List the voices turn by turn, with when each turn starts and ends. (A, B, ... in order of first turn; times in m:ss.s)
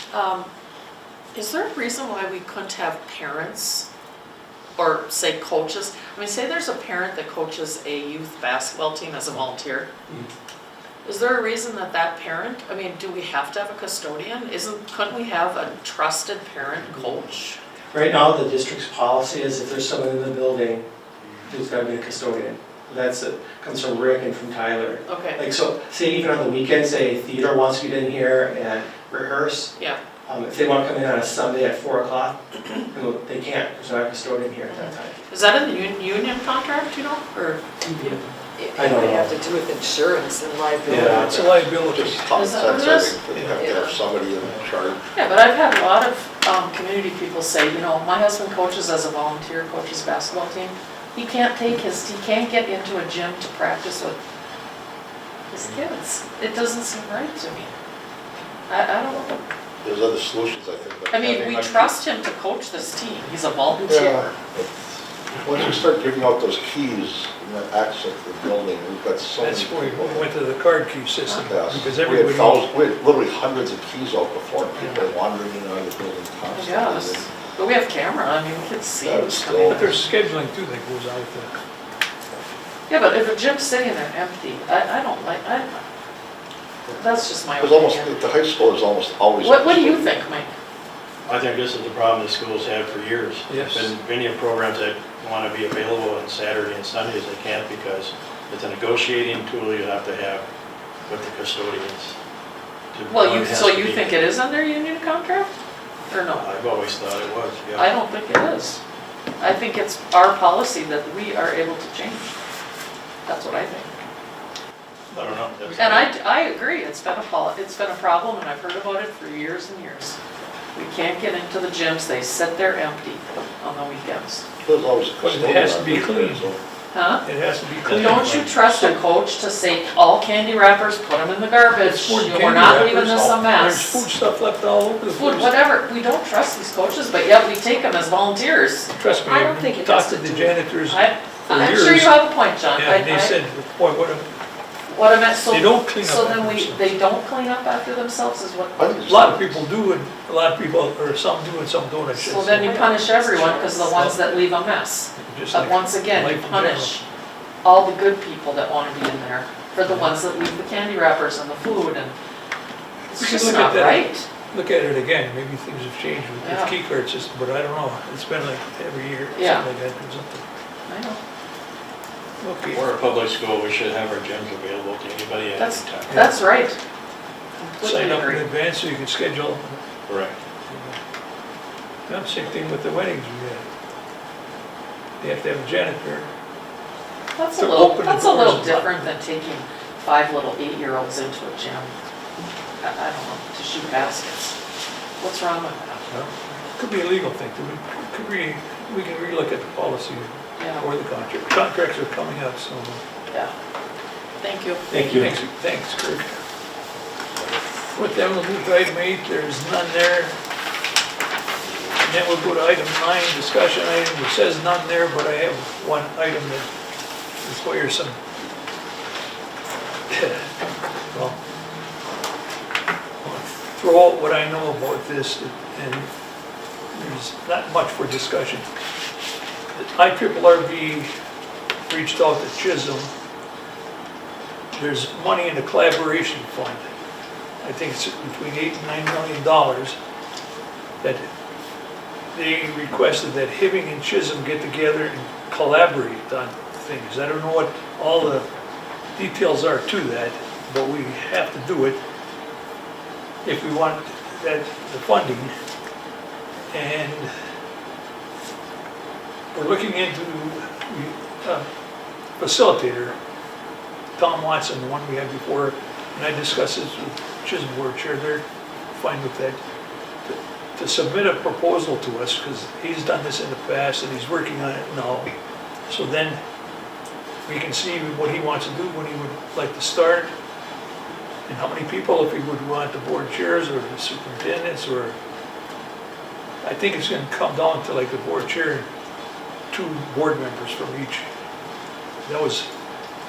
0:00.1-0:00.5 A
0:01.3-0:03.9 A
0:04.8-0:09.9 A
0:11.0-0:17.6 A
0:17.9-0:20.8 B
0:21.4-0:29.7 B
0:25.1-0:25.4 A
0:30.3-0:35.2 B
0:34.7-0:38.2 A
0:38.6-0:41.6 C
0:38.8-0:39.3 B
0:40.9-0:41.5 B
0:41.1-0:42.3 D
0:41.5-0:45.0 E
0:42.4-0:43.2 A
0:43.3-0:43.6 D
0:43.6-0:43.9 C
0:45.1-0:54.2 A
0:55.5-0:57.7 A
0:58.7-0:59.4 A
0:59.1-1:01.9 E
1:01.1-1:04.2 A
1:03.8-1:10.3 E
1:09.4-1:12.7 D
1:11.5-1:17.3 E
1:16.5-1:20.0 A
1:19.0-1:20.0 E
1:19.6-1:21.5 D
1:22.9-1:25.9 A
1:27.0-1:28.2 A
1:27.6-1:30.2 E
1:29.4-1:30.5 A
1:31.3-1:40.4 F
1:33.5-1:33.9 D
1:41.1-1:42.2 F
1:42.9-1:44.1 F
1:43.1-1:45.5 A
1:46.1-1:46.5 A
1:46.3-1:47.9 F
1:47.8-1:48.8 A
1:49.4-1:52.3 A
1:53.3-1:53.9 A
1:55.1-1:56.1 F
1:55.1-1:55.8 D
1:55.8-2:00.2 A
2:00.8-2:04.4 A
2:04.6-2:06.6 E
2:05.2-2:06.5 D
2:06.9-2:07.2 A
2:07.2-2:09.0 D
2:07.9-2:08.5 F
2:07.9-2:14.0 A
2:11.7-2:15.6 D
2:15.2-2:23.3 A
2:19.0-2:24.3 D
2:24.9-2:29.1 A
2:25.5-2:27.0 D
2:28.8-2:29.6 E
2:29.1-2:32.8 D
2:32.1-2:37.0 A
2:32.6-2:33.9 C
2:33.9-2:34.4 D
2:35.2-2:37.0 D
2:37.6-2:42.2 A
2:39.9-2:40.2 D
2:43.1-2:50.4 D
2:43.1-2:44.3 A
2:46.4-2:46.7 A
2:49.3-2:49.6 A
2:50.9-2:51.2 A
2:52.4-2:52.8 D
2:52.7-2:56.4 F
2:55.6-2:56.8 A
2:56.1-2:56.4 D
2:57.6-2:58.5 A
2:57.8-2:59.8 D
3:00.1-3:00.4 F
3:00.7-3:01.0 D
3:02.1-3:03.7 D
3:05.2-3:06.3 D
3:07.4-3:11.9 A
3:07.6-3:09.1 D
3:12.8-3:14.6 A
3:15.2-3:16.1 A
3:16.1-3:23.0 D
3:20.6-3:20.8 A
3:24.4-3:24.8 A
3:24.9-3:25.3 B
3:25.1-3:26.3 D
3:27.9-3:30.3 D
3:32.0-3:36.7 D
3:37.4-3:38.2 D
3:40.1-3:40.5 D
3:41.1-3:41.4 D
3:43.2-3:46.1 D
3:46.9-3:48.7 D
3:49.7-3:51.1 D
3:51.9-3:53.1 D
3:54.7-3:56.8 D
3:57.6-4:00.0 D
4:02.3-4:08.5 D
4:09.2-4:12.0 D
4:13.4-4:15.5 D
4:16.7-4:17.3 D
4:19.5-4:21.7 D
4:22.4-4:23.2 D
4:24.2-4:29.6 D
4:30.2-4:35.3 D
4:35.9-4:36.4 D
4:37.5-4:40.3 D
4:41.5-4:45.2 D
4:46.6-4:48.9 D
4:49.7-4:51.3 D
4:52.2-4:52.7 D